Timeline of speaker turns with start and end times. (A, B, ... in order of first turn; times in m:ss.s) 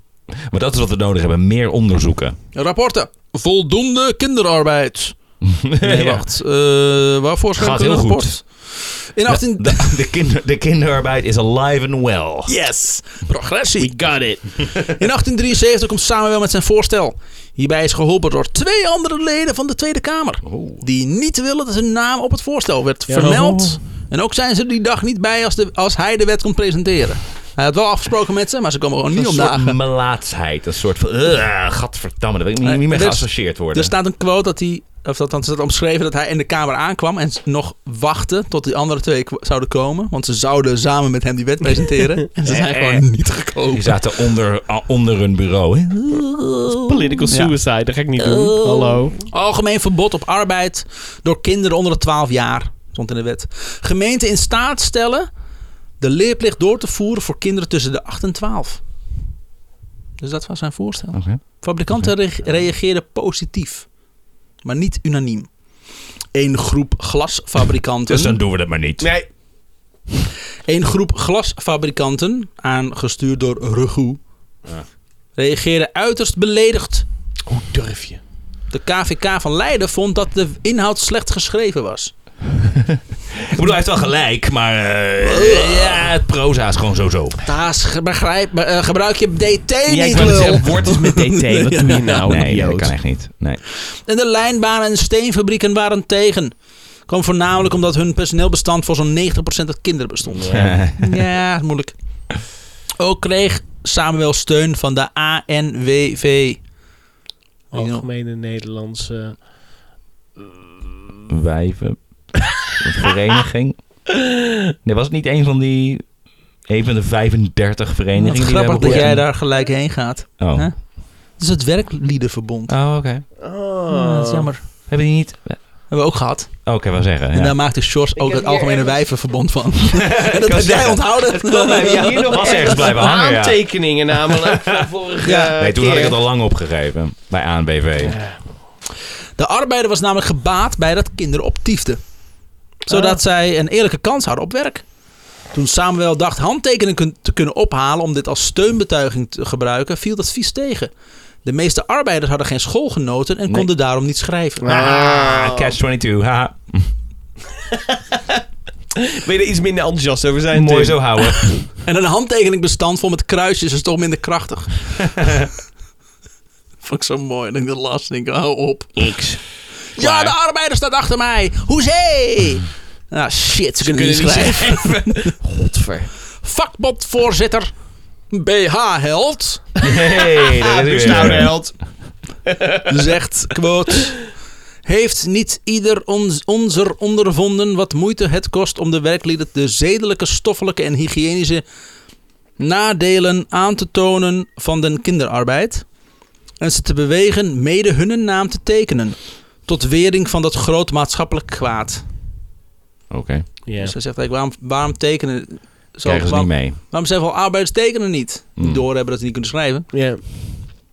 0:00.4-0:02.4 A
0:02.5-0:05.2 B
0:05.4-0:06.2 A
0:05.8-0:09.9 B
0:07.6-0:08.4 A
0:09.2-0:12.5 A
0:12.4-0:13.9 B
0:13.8-0:14.8 C
0:14.9-0:29.8 B
0:20.4-0:20.8 A
0:23.1-0:23.8 C
0:29.1-0:33.9 A
0:32.6-0:44.0 B
0:42.3-0:43.0 C
0:43.7-0:47.2 A
0:46.8-0:49.2 C
0:48.2-0:49.0 A
0:49.2-0:55.3 B
0:56.0-0:58.8 B
1:00.2-1:03.9 B
1:01.1-1:02.1 A
1:04.6-1:05.6 B
1:06.3-1:08.4 B
1:08.1-1:09.1 A
1:09.0-1:09.3 C
1:10.7-1:14.2 B
1:15.4-1:17.0 B
1:17.5-1:18.2 C
1:18.7-1:22.1 B
1:22.6-1:27.4 A
1:25.2-1:26.0 B
1:27.4-1:32.3 B
1:29.9-1:32.9 C
1:32.2-1:33.6 A
1:33.8-1:36.5 B
1:37.0-1:41.9 B
1:40.3-1:40.8 C
1:40.5-1:41.0 A
1:43.0-1:46.6 B
1:47.7-1:48.0 B
1:47.7-1:49.4 C
1:51.3-1:54.0 A
1:54.8-1:59.3 A
1:58.2-2:02.7 B
1:58.8-1:59.2 C
2:00.4-2:00.7 A
2:02.7-2:03.2 A
2:03.4-2:04.5 C
2:03.9-2:04.6 B
2:04.9-2:05.9 A
2:05.9-2:06.7 B
2:06.6-2:07.6 A
2:07.3-2:12.6 B
2:08.1-2:09.0 C
2:10.1-2:14.8 A
2:11.7-2:16.2 C
2:15.2-2:15.5 B
2:15.5-2:18.2 A
2:18.0-2:18.4 C
2:19.4-2:22.0 B
2:22.8-2:24.9 B
2:22.9-2:23.2 C
2:25.5-2:30.9 B
2:31.4-2:34.8 B
2:34.6-2:35.8 C
2:34.7-2:36.9 A
2:37.7-2:38.2 C
2:39.0-2:41.2 C
2:40.5-2:41.6 A
2:41.5-2:45.0 B
2:46.8-2:49.1 B
2:49.0-2:49.4 C
2:49.9-2:55.3 B
2:50.0-2:50.3 A
2:53.8-2:56.1 C
2:56.4-2:57.7 B
2:58.3-2:59.6 B
2:59.8-3:01.6 A
2:59.8-3:02.9 C
3:02.9-3:04.3 B
3:04.8-3:11.6 B
3:12.6-3:15.9 B
3:16.6-3:22.0 B
3:23.1-3:23.5 A
3:23.6-3:23.9 C
3:23.8-3:29.8 B
3:26.0-3:26.8 A
3:28.6-3:28.8 A
3:29.9-3:30.2 C